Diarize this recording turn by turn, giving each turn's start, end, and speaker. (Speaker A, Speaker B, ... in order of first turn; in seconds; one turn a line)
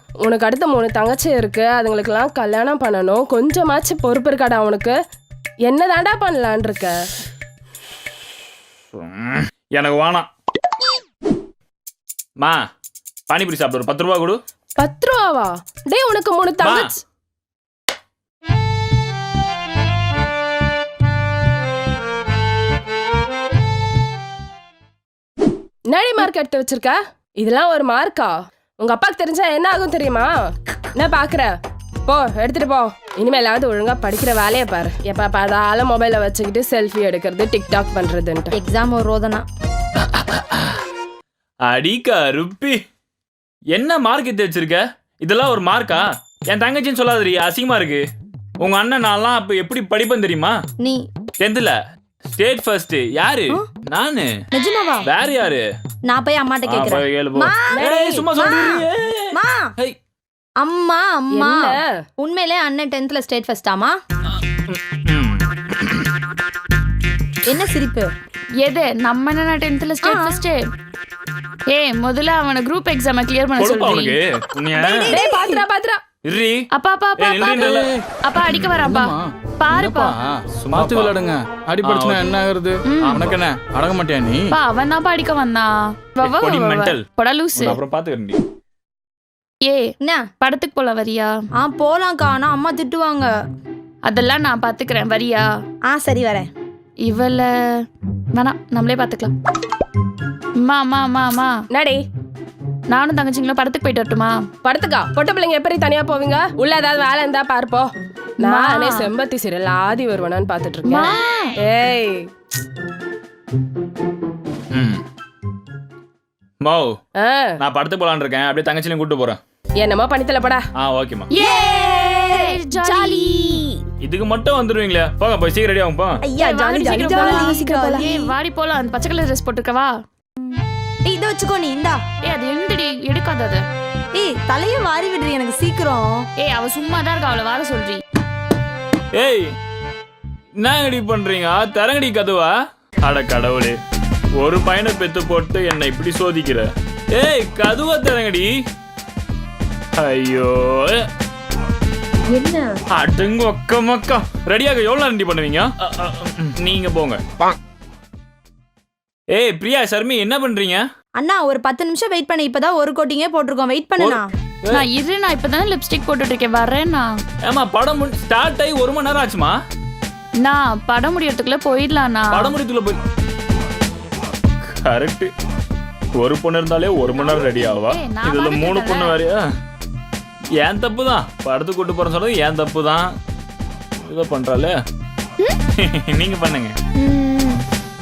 Speaker A: 0.2-5.0
Speaker A: 5.7-7.0
Speaker B: 8.9-10.3
Speaker B: 13.3-14.4
Speaker A: 14.8-16.9
Speaker B: 16.6-16.9
Speaker A: 25.9-30.3
Speaker A: 30.9-31.5
Speaker A: 32.1-38.5
Speaker C: 38.5-39.5
Speaker B: 40.1-40.7
Speaker B: 41.6-42.8
Speaker B: 43.7-48.0
Speaker B: 48.6-50.6
Speaker B: 51.4-51.8
Speaker B: 52.3-54.3
Speaker C: 54.5-55.1
Speaker B: 55.0-55.6
Speaker C: 56.0-57.8
Speaker B: 56.6-60.0
Speaker A: 57.7-58.3
Speaker C: 58.3-59.7
Speaker C: 60.6-63.9
Speaker A: 61.3-61.9
Speaker B: 64.3-66.1
Speaker C: 67.5-68.1
Speaker D: 68.6-70.6
Speaker C: 70.0-70.4
Speaker D: 71.7-74.2
Speaker B: 73.6-75.1
Speaker A: 74.8-76.0
Speaker C: 75.0-75.6
Speaker B: 76.2-76.7
Speaker D: 76.7-80.1
Speaker B: 77.2-77.9
Speaker E: 77.7-78.0
Speaker E: 78.8-84.5
Speaker B: 80.6-81.2
Speaker B: 81.8-82.3
Speaker D: 82.9-83.3
Speaker B: 83.0-83.4
Speaker D: 84.5-87.8
Speaker B: 86.2-87.0
Speaker B: 87.6-88.4
Speaker D: 89.6-91.3
Speaker C: 90.0-90.3
Speaker C: 91.6-93.3
Speaker D: 94.0-95.5
Speaker C: 95.9-96.5
Speaker D: 97.0-97.5
Speaker D: 98.3-99.3
Speaker D: 100.6-101.5
Speaker A: 101.7-102.0
Speaker D: 102.9-104.4
Speaker A: 104.6-107.9
Speaker A: 108.4-111.1
Speaker D: 108.4-109.1
Speaker D: 110.8-111.6
Speaker A: 111.6-112.3
Speaker B: 114.7-115.0
Speaker B: 116.6-116.9
Speaker A: 117.2-117.5
Speaker B: 117.6-119.4
Speaker A: 119.8-120.7
Speaker B: 120.8-121.3
Speaker D: 121.3-123.5
Speaker C: 121.3-123.8
Speaker B: 124.0-126.2
Speaker C: 126.2-128.3
Speaker A: 126.4-128.0
Speaker D: 126.8-129.9
Speaker C: 131.1-132.0
Speaker D: 132.2-133.6
Speaker C: 134.1-136.2
Speaker D: 136.4-138.0
Speaker B: 139.1-139.5
Speaker B: 140.6-143.8
Speaker B: 144.4-148.5
Speaker B: 150.0-151.0
Speaker B: 152.9-157.2
Speaker B: 159.3-160.8
Speaker C: 161.2-164.3
Speaker B: 164.0-164.8
Speaker D: 164.7-167.2
Speaker B: 167.4-169.6
Speaker D: 170.4-172.5
Speaker B: 172.3-173.0
Speaker B: 174.8-175.3
Speaker B: 176.2-179.4
Speaker D: 177.1-179.2
Speaker B: 180.6-183.1
Speaker B: 184.0-184.8
Speaker B: 185.8-186.7
Speaker C: 187.0-187.6